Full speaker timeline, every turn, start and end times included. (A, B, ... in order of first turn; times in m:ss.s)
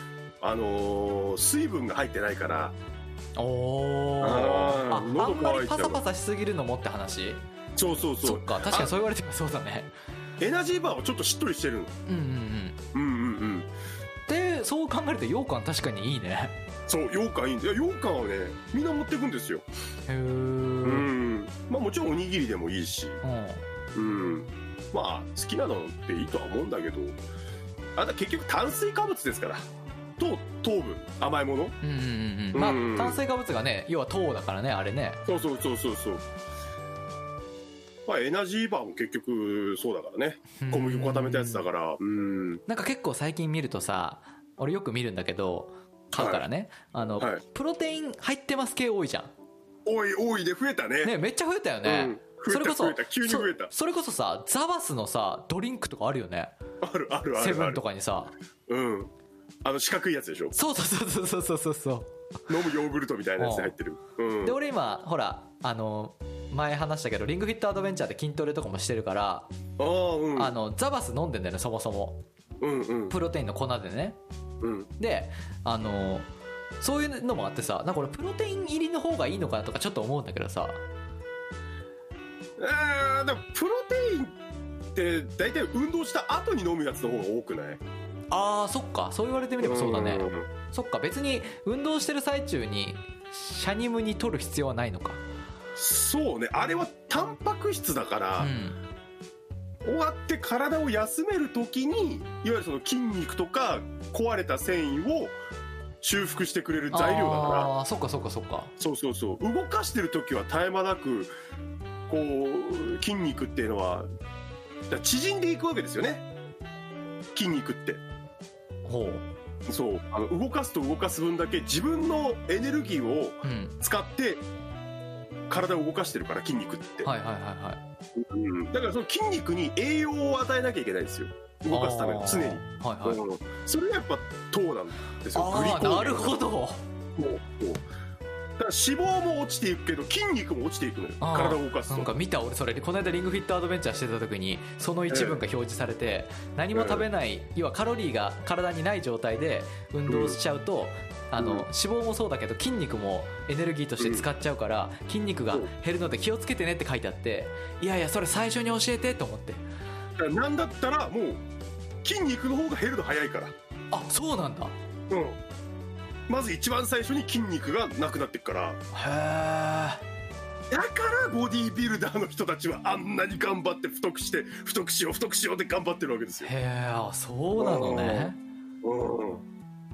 0:00.4-0:02.8 A
0:03.4-0:07.4 B
0:04.2-0:06.0 A
0:07.8-0:08.9 A
0:08.2-0:09.9 B
0:10.4-0:11.9 A
0:12.1-0:12.8 B
0:12.9-0:13.7 A
0:14.3-0:16.6 B
0:16.9-0:19.6 A
0:20.1-0:21.1 B
0:20.8-0:23.2 A
0:23.2-0:23.6 B
0:23.9-0:27.2 A
0:28.0-0:29.7 A
0:30.2-0:31.7 A
0:31.8-0:35.2 B
0:32.5-0:33.2 A
0:35.2-0:36.2 A
0:38.1-0:42.6 A
0:40.6-0:41.6 B
0:42.7-0:49.3 B
0:46.1-0:46.4 A
0:49.8-0:51.1 A
0:51.0-0:56.5 B
0:51.8-0:53.7 A
0:56.8-0:57.8 A
0:57.4-0:58.3 B
0:58.7-0:59.1 A
0:59.6-1:00.5 A
1:00.5-1:02.1 B
1:02.5-1:04.6 A
1:03.4-1:03.7 B
1:04.4-1:09.5 B
1:09.8-1:10.5 A
1:10.4-1:12.2 B
1:12.6-1:13.2 A
1:13.1-1:14.2 B
1:14.6-1:14.9 A
1:15.0-1:16.3 B
1:16.8-1:20.8 B
1:22.6-1:24.4 A
1:24.9-1:27.8 A
1:28.3-1:35.2 B
1:29.6-1:30.5 A
1:35.8-1:38.5 A
1:38.4-1:38.8 B
1:39.8-1:45.4 A
1:46.0-1:47.7 A
1:46.9-1:48.7 B
1:48.8-1:51.3 A
1:52.1-1:54.1 A
1:54.9-1:56.2 A
1:57.3-1:58.0 A
1:58.8-1:59.2 B
1:59.7-2:04.4 A
2:03.4-2:03.7 B
2:05.5-2:07.1 A
2:07.0-2:07.8 B
2:08.1-2:16.4 A
2:11.7-2:13.2 B
2:15.3-2:16.8 B
2:17.2-2:17.8 A
2:18.6-2:22.1 A
2:21.2-2:39.6 B
2:25.1-2:25.4 A
2:26.7-2:27.0 A
2:30.1-2:30.4 A
2:31.4-2:31.6 A
2:34.0-2:34.3 A
2:40.2-2:41.4 A
2:42.0-2:43.5 A
2:43.9-2:44.7 B
2:45.1-2:45.4 A
2:46.3-2:48.8 A
2:48.9-2:50.0 B
2:50.7-2:56.5 A
2:56.4-2:58.4 B
2:57.6-2:59.4 A